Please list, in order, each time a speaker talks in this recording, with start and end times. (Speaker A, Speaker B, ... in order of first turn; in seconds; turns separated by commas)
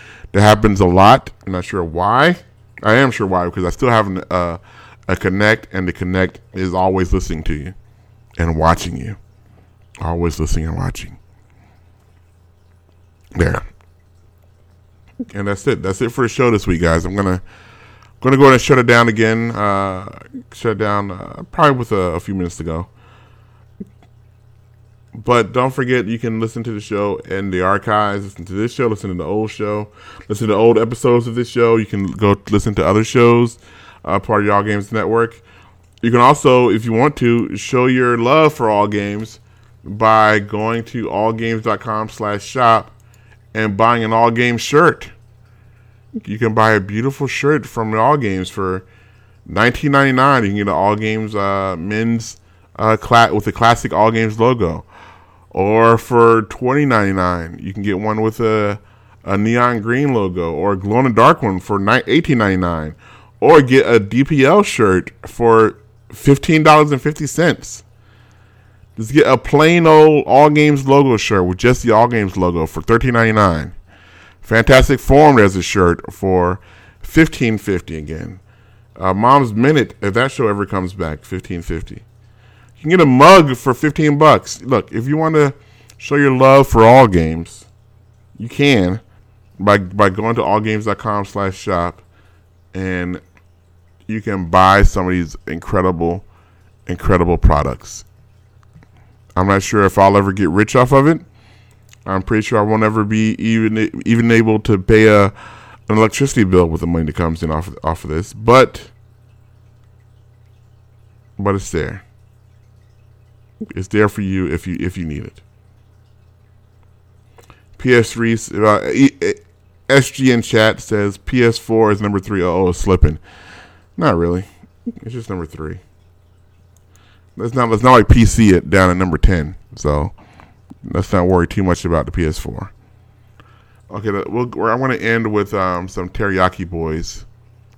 Speaker A: 0.3-7.8, Speaker A: 8.4-9.2, Speaker A: 10.0-11.2, Speaker A: 13.3-13.7, Speaker A: 15.3-17.4, Speaker A: 18.2-22.9, Speaker A: 25.1-35.4, Speaker A: 36.0-43.0, Speaker A: 43.5-45.1, Speaker A: 46.2-48.9, Speaker A: 49.5-54.9, Speaker A: 55.5-67.8, Speaker A: 69.0-73.7, Speaker A: 74.4-78.4, Speaker A: 79.0-82.0, Speaker A: 82.8-87.7, Speaker A: 88.4-89.0, Speaker A: 89.6-92.0, Speaker A: 92.7-93.2, Speaker A: 94.1-96.2, Speaker A: 96.9-98.0, Speaker A: 99.4-101.2, Speaker A: 102.1-105.3, Speaker A: 105.9-108.9, Speaker A: 111.4-112.0, Speaker A: 113.7-115.4, Speaker A: 117.8-123.2, Speaker A: 124.0-124.5, Speaker A: 125.0-125.8, Speaker A: 127.4-130.2, Speaker A: 130.8-132.7, Speaker A: 133.9-137.3